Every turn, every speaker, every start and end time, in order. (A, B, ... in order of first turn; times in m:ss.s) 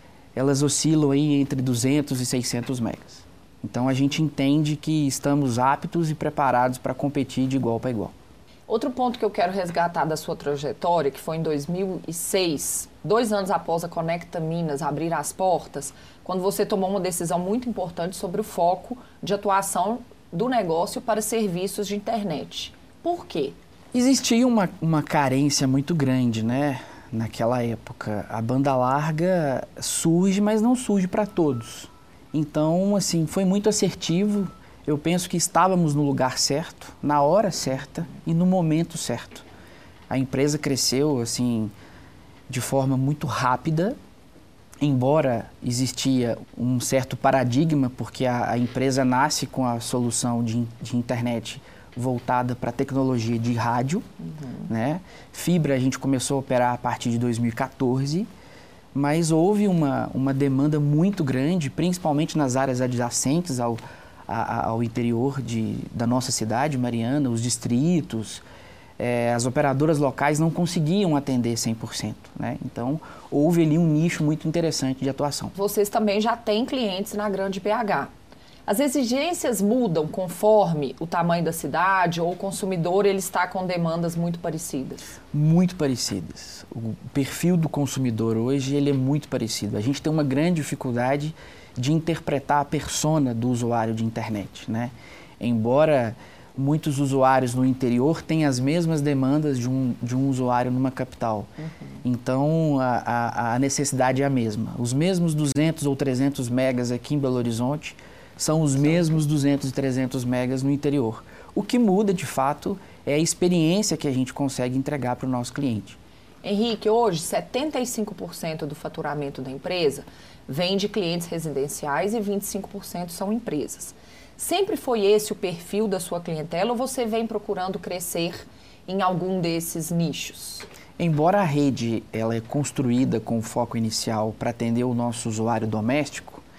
0:00.3-0:08.1 A
0:08.7-0:23.6 B
0:23.9-0:39.4 A
0:40.1-0:41.7 A
0:42.5-0:44.0 A
0:44.8-0:54.0 A
0:54.6-0:58.3 A
0:58.9-1:08.4 A
1:09.0-1:15.5 A
1:15.5-1:18.1 B
1:18.6-1:25.1 B
1:25.3-1:41.5 A
1:42.0-1:56.0 A
1:56.4-2:10.7 B
2:11.0-2:16.4 A